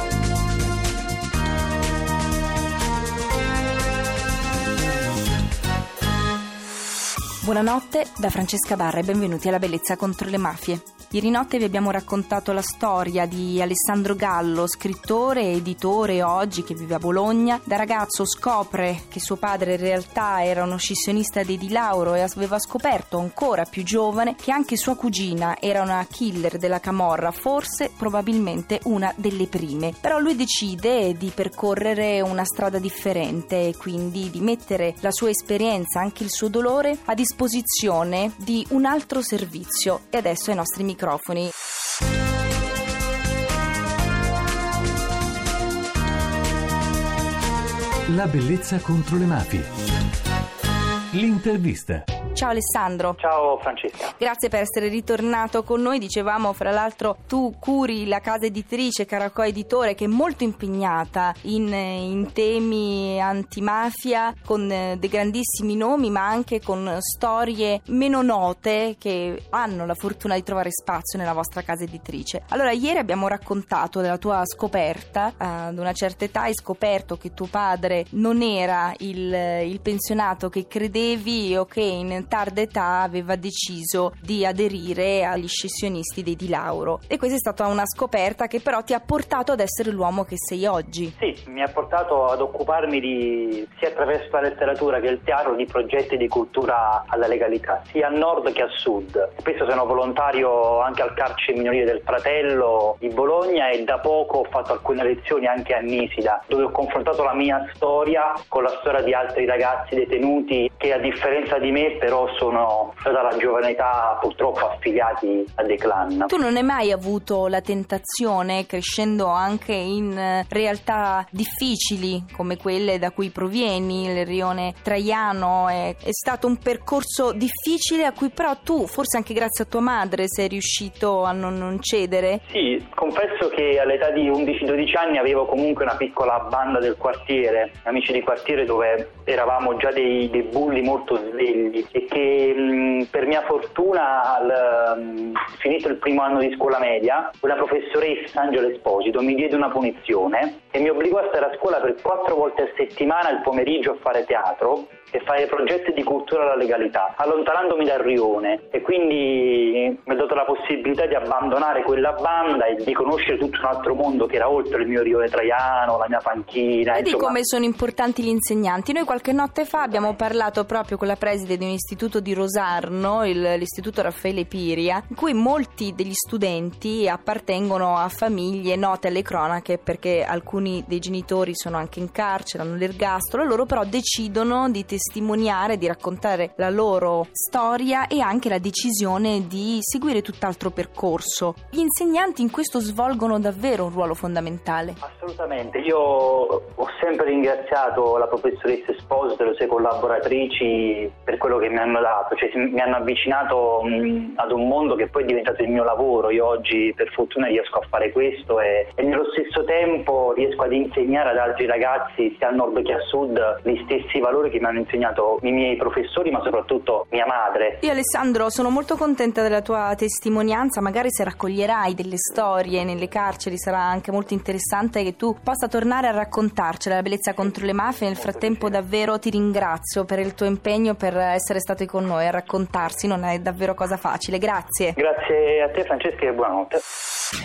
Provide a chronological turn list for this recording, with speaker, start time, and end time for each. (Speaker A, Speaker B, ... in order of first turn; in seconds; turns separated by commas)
Speaker A: 7.4-41.5, Speaker B: 48.1-49.7, Speaker B: 51.1-52.0, Speaker A: 52.3-53.2, Speaker C: 53.2-54.1, Speaker A: 54.1-91.2, Speaker C: 91.2-116.3, Speaker A: 116.3-132.4, Speaker C: 132.5-167.3, Speaker A: 166.9-195.0, Speaker C: 195.0-217.8, Speaker A: 217.8-235.0, Speaker C: 228.4-228.8, Speaker C: 235.0-236.8